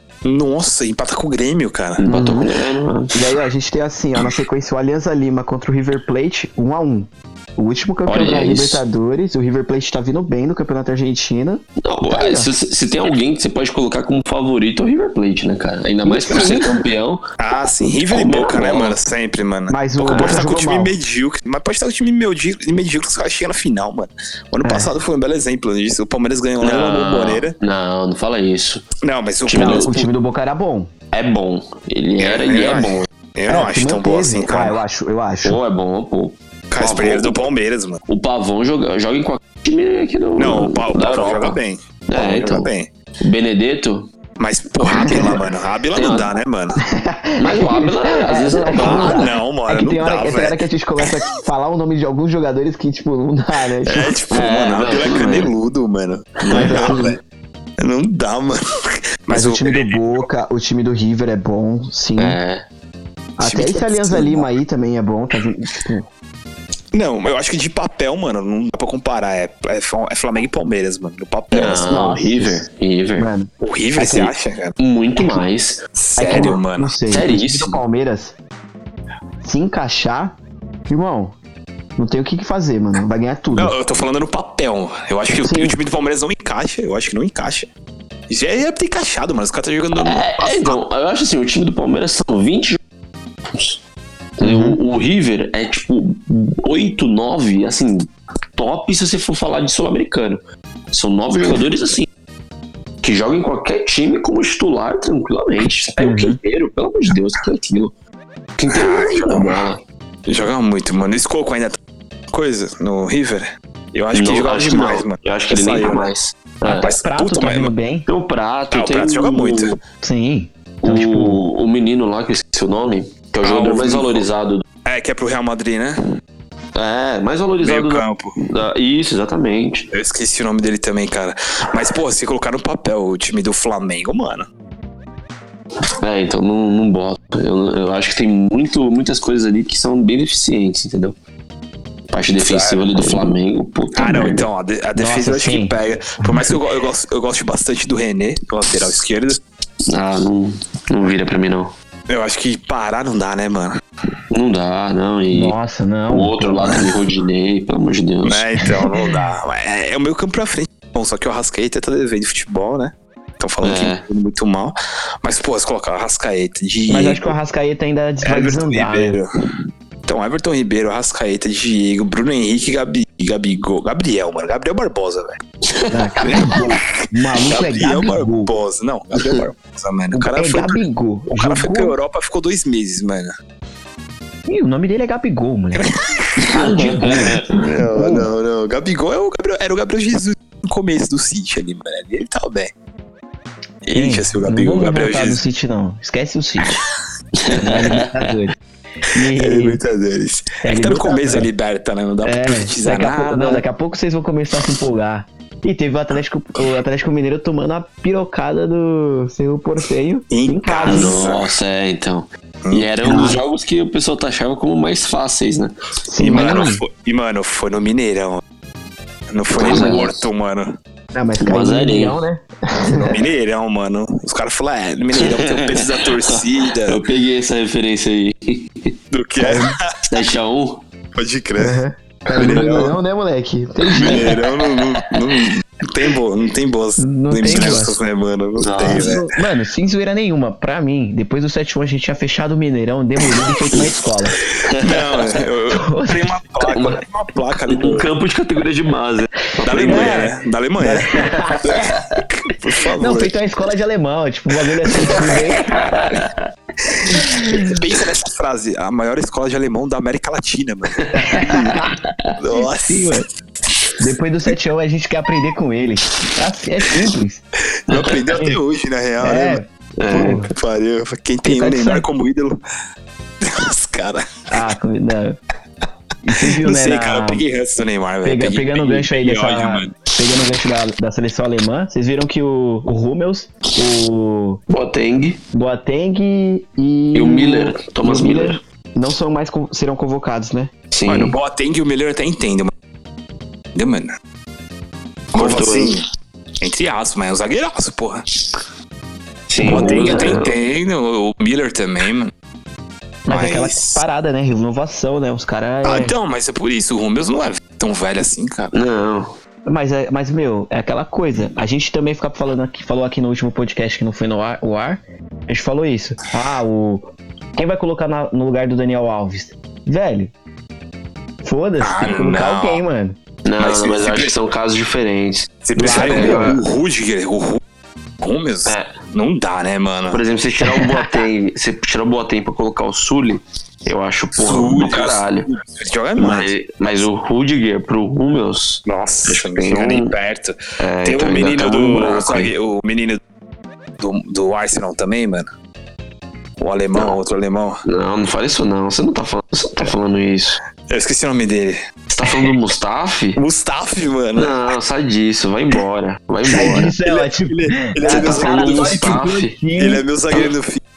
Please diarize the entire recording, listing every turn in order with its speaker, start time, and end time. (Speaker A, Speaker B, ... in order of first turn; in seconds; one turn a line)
Speaker A: 0.2-2.0
Speaker B: 2.0-3.2
Speaker C: 2.1-2.5
Speaker C: 3.1-12.5
Speaker B: 8.1-8.8
Speaker B: 11.8-17.2
Speaker C: 16.1-16.8
Speaker A: 16.3-16.7
Speaker A: 17.4-27.6
Speaker B: 18.1-19.0
Speaker C: 19.7-20.9
Speaker B: 20.1-20.4
Speaker C: 24.6-24.9
Speaker B: 26.6-28.9
Speaker A: 29.0-30.0
Speaker B: 29.4-30.1
Speaker C: 29.5-30.9
Speaker B: 31.1-33.0
Speaker A: 32.2-34.8
Speaker C: 33.5-35.6
Speaker B: 35.4-37.4
Speaker A: 36.7-38.0
Speaker B: 38.1-44.1
Speaker A: 40.4-42.9
Speaker A: 44.4-46.8
Speaker C: 44.8-45.4
Speaker B: 45.9-46.3
Speaker C: 46.8-54.1
Speaker B: 47.4-49.3
Speaker A: 48.8-50.6
Speaker A: 53.9-57.2
Speaker B: 54.3-55.5
Speaker B: 56.5-57.1
Speaker C: 56.5-57.1
Speaker A: 57.8-60.2
Speaker C: 59.3-62.4
Speaker B: 62.2-62.6
Speaker C: 63.4-66.1
Speaker A: 63.4-64.5
Speaker A: 66.9-71.9
Speaker B: 71.5-73.3
Speaker C: 71.6-72.6
Speaker C: 73.2-74.3
Speaker A: 73.6-74.8
Speaker B: 74.0-75.8
Speaker A: 76.0-77.0
Speaker C: 76.2-78.4
Speaker B: 77.1-77.8
Speaker C: 79.4-80.4
Speaker C: 80.9-81.4
Speaker C: 82.0-83.7
Speaker A: 83.5-87.7
Speaker C: 85.3-85.8
Speaker A: 88.3-90.8
Speaker B: 90.0-92.8
Speaker B: 93.5-93.8
Speaker B: 94.4-102.1
Speaker C: 94.4-94.8
Speaker B: 103.0-107.9
Speaker C: 106.0-106.4
Speaker B: 108.6-109.8
Speaker A: 108.7-109.6
Speaker A: 110.3-111.8
Speaker A: 112.3-116.1
Speaker B: 114.1-116.9
Speaker C: 116.7-118.1
Speaker A: 116.7-117.7
Speaker B: 118.1-119.8
Speaker A: 118.7-119.8
Speaker C: 120.0-121.4
Speaker B: 120.8-124.6
Speaker A: 123.4-124.3
Speaker A: 124.8-126.0
Speaker B: 126.7-129.9
Speaker A: 127.6-128.3
Speaker A: 129.9-134.5
Speaker B: 136.0-141.2
Speaker B: 142.1-144.4
Speaker A: 142.4-143.2
Speaker A: 143.9-149.4
Speaker C: 144.9-145.8
Speaker B: 149.9-151.7
Speaker A: 152.1-153.8
Speaker B: 154.3-155.6
Speaker C: 155.3-156.9
Speaker B: 156.1-158.4
Speaker A: 158.2-167.3
Speaker B: 163.6-164.0
Speaker C: 166.9-169.2
Speaker A: 168.2-169.3
Speaker A: 170.1-175.4
Speaker B: 175.7-176.5
Speaker C: 175.9-178.5
Speaker A: 176.2-183.3
Speaker C: 180.1-181.9
Speaker C: 184.5-185.9
Speaker A: 185.8-192.7
Speaker B: 186.4-187.5
Speaker C: 186.5-188.3
Speaker A: 193.8-195.4
Speaker C: 193.9-196.8
Speaker B: 197.4-198.2
Speaker C: 197.5-198.6
Speaker C: 199.1-199.8
Speaker A: 199.4-203.6
Speaker C: 200.6-201.5
Speaker C: 202.2-211.2
Speaker A: 210.3-211.5
Speaker B: 210.9-215.7
Speaker A: 212.6-213.4
Speaker C: 213.0-213.4
Speaker C: 216.1-216.8
Speaker A: 216.2-218.4
Speaker B: 216.3-216.6
Speaker A: 219.3-220.8
Speaker B: 219.5-220.2
Speaker C: 219.6-220.1
Speaker C: 221.1-223.2
Speaker B: 221.4-222.2
Speaker A: 222.9-227.0
Speaker B: 225.1-228.9
Speaker A: 229.1-229.9
Speaker C: 229.4-229.8
Speaker B: 230.1-230.8
Speaker A: 231.2-231.8
Speaker C: 231.6-234.3
Speaker A: 232.3-232.9
Speaker B: 232.4-232.6
Speaker B: 233.9-235.4
Speaker A: 233.9-239.2
Speaker C: 237.0-237.9
Speaker B: 238.6-239.1
Speaker C: 238.8-244.4
Speaker B: 244.6-245.2
Speaker A: 244.8-248.1
Speaker C: 245.7-246.4
Speaker B: 246.7-247.0
Speaker B: 247.7-250.3
Speaker C: 249.6-252.0
Speaker A: 249.6-251.1
Speaker A: 251.6-253.3
Speaker C: 253.0-255.8
Speaker A: 255.0-256.3
Speaker B: 255.1-256.4
Speaker A: 256.9-261.8
Speaker C: 257.1-257.7
Speaker C: 261.1-261.9
Speaker A: 262.4-263.2
Speaker C: 262.6-263.3
Speaker C: 264.0-267.4
Speaker A: 267.9-272.6
Speaker C: 268.3-268.6
Speaker C: 269.2-270.5
Speaker B: 270.0-270.4
Speaker C: 271.4-272.1
Speaker A: 273.4-274.3
Speaker C: 274.5-275.4
Speaker C: 276.2-277.4
Speaker A: 276.6-280.0
Speaker C: 278.2-284.6
Speaker B: 284.7-285.4
Speaker C: 285.5-290.7
Speaker B: 287.1-288.6
Speaker B: 290.9-291.4
Speaker A: 291.1-292.7
Speaker A: 293.7-294.1
Speaker B: 295.3-296.0
Speaker A: 295.3-296.1
Speaker A: 296.6-298.2
Speaker B: 299.5-300.6
Speaker A: 299.6-302.3
Speaker C: 299.7-300.4
Speaker C: 303.3-306.1
Speaker A: 303.3-304.0
Speaker A: 305.8-308.7
Speaker B: 308.7-309.3
Speaker C: 309.7-320.3
Speaker C: 321.4-323.2
Speaker A: 321.8-322.8
Speaker B: 323.4-326.6
Speaker A: 323.6-324.4
Speaker A: 325.6-327.6
Speaker C: 325.8-326.6
Speaker A: 328.2-330.2
Speaker B: 328.7-328.9
Speaker B: 330.1-335.5
Speaker C: 330.6-331.1
Speaker A: 334.4-337.1
Speaker B: 336.2-340.1
Speaker A: 338.9-343.2
Speaker B: 340.8-342.5
Speaker A: 344.0-345.5
Speaker A: 346.6-347.8
Speaker B: 347.9-350.6
Speaker A: 350.9-352.6
Speaker B: 352.1-353.4
Speaker A: 353.4-354.7
Speaker B: 354.4-356.9
Speaker A: 356.5-359.1
Speaker C: 356.5-360.0
Speaker B: 358.0-359.6
Speaker A: 359.8-360.8